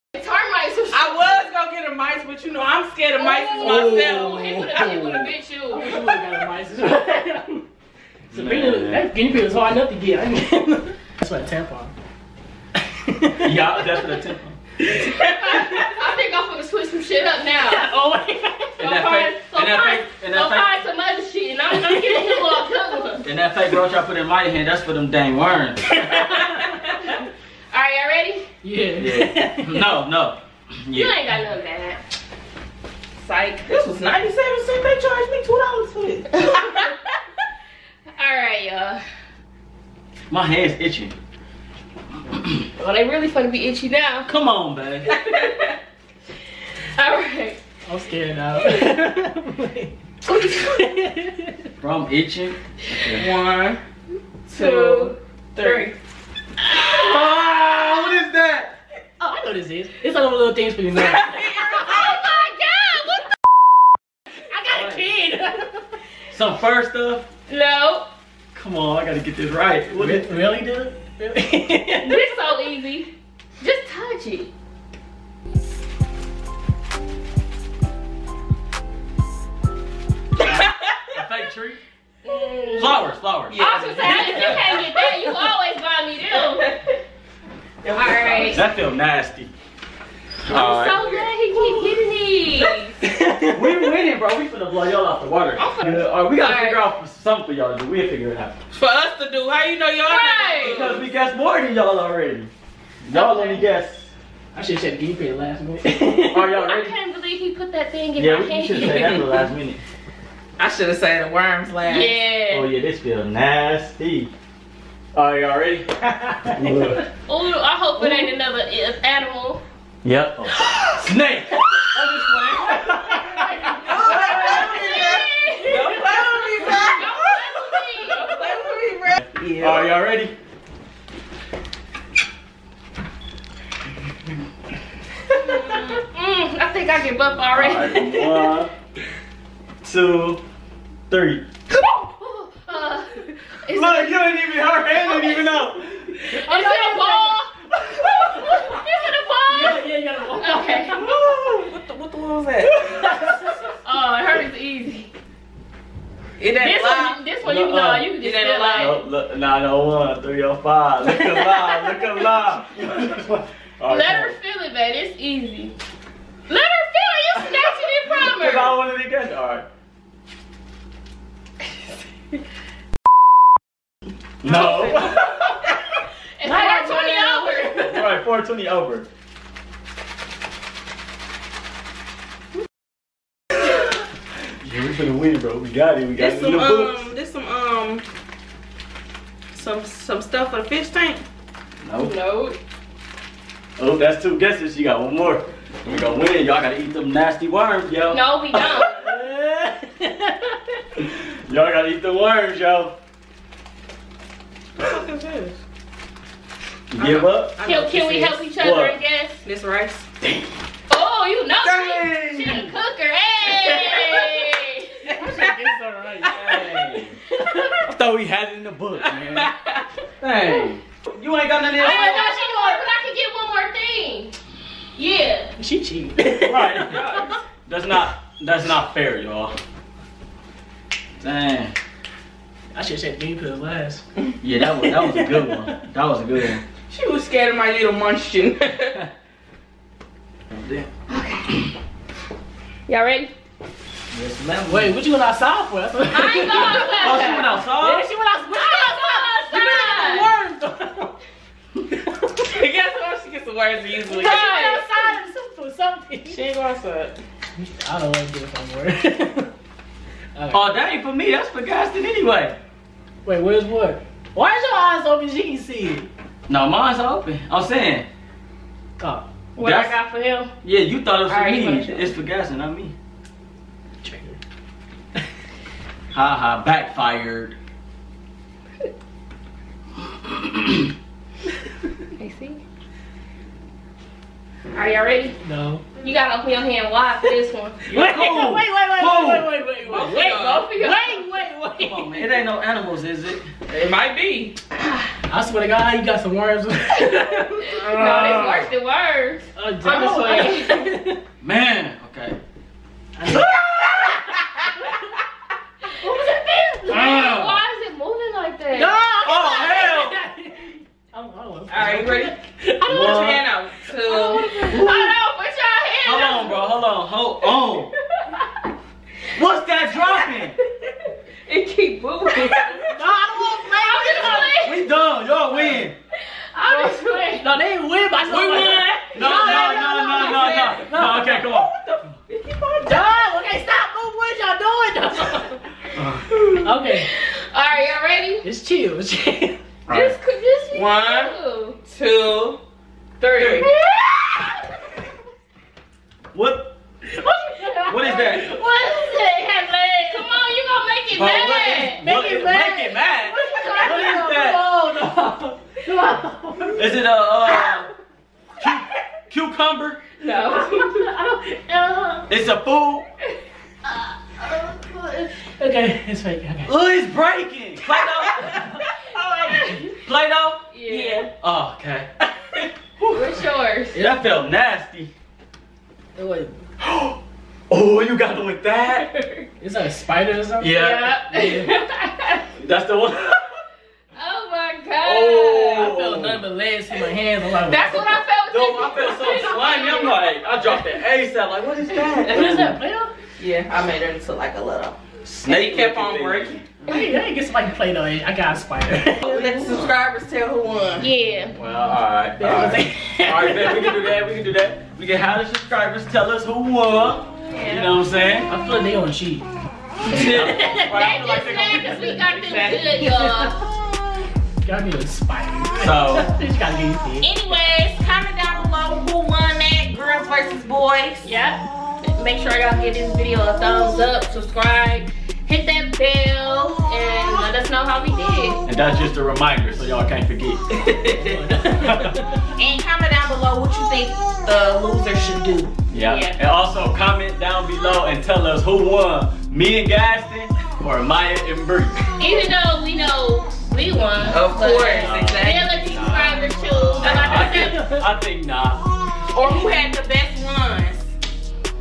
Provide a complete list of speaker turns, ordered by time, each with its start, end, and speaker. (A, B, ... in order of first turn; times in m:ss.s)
0:00.1-0:01.4 A
0:00.9-0:05.0 B
0:03.2-0:06.0 A
0:03.5-0:05.3 C
0:05.7-0:07.7 D
0:08.3-0:09.1 C
0:08.3-0:11.9 D
0:12.8-0:14.0 D
0:13.4-0:14.6 C
0:15.3-0:17.9 A
0:17.6-0:18.8 D
0:18.8-0:20.7 C
0:18.8-0:23.3 A
0:21.7-0:22.6 D
0:23.2-0:26.1 C
0:26.0-0:26.7 D
0:27.7-0:28.5 A
0:28.6-0:29.9 D
0:29.0-0:31.2 C
0:30.9-0:32.0 A
0:33.2-0:33.6 A
0:33.6-0:36.9 B
0:36.4-0:36.9 A
0:38.2-0:39.0 A
0:40.3-0:41.1 C
0:42.3-0:42.6 C
0:42.8-0:44.3 A
0:44.2-0:45.1 C
0:45.0-0:45.3 A
0:47.0-0:47.6 A
0:47.8-0:50.0 D
0:50.2-0:50.9 A
0:50.7-0:51.7 D
0:51.8-0:53.3 C
0:53.1-0:53.8 B
0:54.5-0:56.0 B
0:54.5-0:55.9 A
0:56.7-0:58.7 C
0:59.2-1:01.4 D
1:01.0-1:02.2 B
1:01.7-1:03.2 A
1:04.5-1:05.8 D
1:04.7-1:05.0 C
1:06.3-1:07.2 C
1:07.5-1:08.0 A
1:08.5-1:10.4 C
1:09.9-1:12.2 D
1:12.0-1:14.5 A
1:20.4-1:21.0 B
1:21.1-1:21.8 C
1:22.2-1:26.8 A
1:22.8-1:23.6 C
1:23.5-1:25.1 B
1:26.3-1:26.8 B
1:27.8-1:29.5 C
1:27.9-1:28.6 A
1:28.2-1:28.4 B
1:30.4-1:31.1 C
1:30.5-1:33.0 A
1:33.0-1:33.9 D
1:33.4-1:38.6 C
1:35.6-1:36.8 A
1:38.7-1:41.0 B
1:40.0-1:40.9 A
1:40.6-1:42.5 C
1:43.0-1:44.1 C
1:43.1-1:43.6 A
1:44.5-1:46.5 D
1:46.3-1:46.9 C
1:46.6-1:49.4 A
1:48.2-1:49.8 C
1:50.6-1:52.2 B
1:51.8-1:52.7 A
1:52.5-1:54.3 C
1:55.1-1:55.9 C
1:56.1-1:56.7 D
1:56.5-1:57.0 C
1:57.2-1:59.6 A
1:58.0-1:58.3 D
2:00.0-2:04.5 C
2:03.0-2:04.8 D
2:03.8-2:07.4 B
2:04.0-2:08.6 A
2:08.0-2:09.9 B
2:09.3-2:10.4 C
2:15.3-2:18.5 A
2:17.5-2:18.7 C
2:19.8-2:20.4 C
2:21.1-2:21.5 C
2:21.8-2:24.3 A
2:23.7-2:26.2 C
2:25.0-2:25.6 A
2:26.2-2:27.4 D
2:26.3-2:29.8 A
2:29.5-2:31.1 D
2:30.4-2:31.0 A
2:31.0-2:33.0 B
2:32.7-2:33.7 D
2:33.8-2:35.1 A
2:36.4-2:37.2 B
2:36.5-2:39.0 A
2:37.4-2:38.1 C
2:38.2-2:39.0 B
2:38.7-2:44.4 C
2:43.9-2:45.8 A
2:46.5-2:48.8 A
2:48.1-2:49.6 C
2:54.4-2:55.4 C
2:54.4-2:55.1 B
2:54.4-2:55.3 A
2:56.4-2:58.1 A
2:56.4-2:58.0 D
2:57.8-2:59.1 C
3:04.6-3:07.0 C
3:06.2-3:08.0 B
3:09.5-3:11.2 B
3:11.8-3:12.2 C
3:12.0-3:12.6 A
3:13.8-3:19.7 C
3:18.1-3:19.0 A
3:19.0-3:19.2 D
3:20.0-3:20.6 D
3:21.0-3:23.0 C
3:24.8-3:25.6 B
3:26.9-3:27.6 C
3:27.0-3:28.4 B
3:27.6-3:29.4 A
3:28.6-3:29.0 C
3:29.4-3:30.1 B
3:30.9-3:34.9 A
3:31.6-3:32.7 C
3:35.1-3:36.4 D
3:36.2-3:37.2 C
3:36.3-3:36.6 B
3:37.4-3:37.8 D
3:37.8-3:39.5 C
3:39.3-3:39.8 B
3:40.2-3:42.3 C
3:41.7-3:44.3 A
3:41.8-3:42.8 D
3:45.0-3:45.5 A
3:45.6-3:47.0 D
3:46.4-3:49.6 C
3:46.9-3:47.4 B
3:51.2-3:51.7 C
3:52.7-3:54.0 D
3:54.4-3:56.6 C
3:54.8-3:55.8 D
3:56.9-3:59.0 B
4:00.5-4:00.9 C
4:01.1-4:01.5 A
4:02.9-4:03.3 A
4:04.1-4:05.0 C
4:04.7-4:11.2 D
4:06.1-4:07.5 A
4:07.0-4:08.1 C
4:08.5-4:10.3 A
4:09.6-4:10.3 B
4:11.9-4:12.6 D
4:12.5-4:14.5 B
4:14.1-4:16.4 D
4:14.1-4:15.1 A
4:16.3-4:17.2 B
4:17.6-4:19.5 D
4:20.3-4:20.7 D
4:20.5-4:22.6 C
4:23.2-4:26.1 D
4:26.5-4:28.1 C
4:29.0-4:29.3 D
4:29.5-4:30.5 A
4:29.6-4:30.0 C
4:30.6-4:32.9 C
4:31.3-4:32.1 A
4:34.0-4:34.4 D
4:36.1-4:37.6 C
4:40.2-4:40.8 C
4:42.2-4:42.6 A
4:44.7-4:45.4 A
4:45.4-4:45.9 D
4:46.0-4:47.8 A
4:47.8-4:52.3 D
4:47.9-4:49.6 C
4:49.8-4:50.7 B
4:49.9-4:51.2 A
4:51.8-4:53.5 C
4:53.7-4:54.6 B
4:55.3-4:58.6 D
4:57.7-5:00.9 A
4:58.0-4:58.6 C
4:59.6-5:01.2 D
5:01.4-5:02.4 C
5:03.2-5:03.6 D
5:03.3-5:03.9 C
5:06.0-5:07.1 D
5:06.8-5:09.0 A
5:06.9-5:07.6 C
5:08.7-5:13.5 D
5:09.2-5:10.2 C
5:11.7-5:14.5 B
5:12.8-5:13.4 C
5:14.0-5:14.8 D
5:14.0-5:16.7 A
5:14.6-5:15.1 C
5:16.0-5:17.9 C
5:18.1-5:18.5 A
5:19.3-5:20.6 C
5:19.9-5:20.9 A
5:21.4-5:22.7 A
5:22.3-5:22.6 B
5:22.6-5:24.5 D
5:23.7-5:24.8 A
5:24.4-5:26.0 C
5:26.3-5:27.4 A
5:26.6-5:28.9 D
5:28.3-5:30.8 A
5:28.5-5:33.2 B
5:29.1-5:31.7 C
5:30.6-5:31.5 D
5:32.8-5:35.6 D
5:35.9-5:36.3 C
5:36.6-5:37.1 D
5:37.1-5:38.4 A
5:38.4-5:39.6 D
5:39.9-5:40.2 C
5:39.9-5:41.8 A
5:40.7-5:42.6 B
5:43.2-5:43.7 B
5:43.3-5:44.1 A
5:46.3-5:46.7 C
5:47.1-5:50.4 D
5:47.9-5:48.5 C
5:50.1-5:52.0 A
5:51.1-5:54.6 C
5:52.0-5:57.0 D
5:53.4-5:54.0 A
5:56.8-5:57.9 C
5:58.6-6:00.0 C
6:00.2-6:01.1 A
6:00.4-6:02.3 D
6:02.3-6:03.1 C
6:03.9-6:06.7 D
6:06.6-6:08.6 C
6:08.4-6:08.8 D
6:09.2-6:09.6 B
6:09.4-6:09.7 D
6:09.4-6:09.8 A
6:09.8-6:10.6 C
6:10.7-6:11.3 A
6:10.9-6:11.3 B
6:11.4-6:12.1 C
6:13.0-6:14.0 A
6:13.9-6:15.1 C
6:16.2-6:16.6 D
6:16.8-6:19.1 C
6:18.9-6:19.4 A
6:19.6-6:21.8 D
6:20.6-6:21.2 C
6:20.7-6:22.4 A
6:22.6-6:23.5 C
6:24.1-6:25.9 A
6:25.0-6:26.4 C
6:25.7-6:28.2 D
6:27.6-6:30.7 A
6:28.5-6:32.8 C
6:32.3-6:33.1 D
6:33.4-6:36.6 B
6:35.2-6:36.6 C
6:36.9-6:39.6 D
6:39.2-6:41.1 B
6:41.0-6:41.5 A
6:41.5-6:48.5 C
6:42.4-6:44.0 D
6:47.5-6:47.9 A
6:48.5-6:49.5 D
6:50.0-6:52.1 C
6:50.1-6:50.9 D
6:50.9-6:53.5 A
6:52.2-6:53.5 B
6:54.6-6:57.3 D
6:55.8-6:56.3 C
6:57.2-7:01.3 B
7:01.2-7:08.6 A
7:08.6-7:10.6 C
7:10.8-7:11.4 B
7:11.1-7:12.5 D
7:11.8-7:12.1 C
7:12.6-7:15.7 B
7:15.9-7:22.0 C
7:15.9-7:16.4 A
7:22.2-7:27.8 A
7:24.2-7:27.5 B
7:24.9-7:26.4 C
7:27.0-7:28.8 C
7:27.0-7:28.0 D
7:29.3-7:31.1 B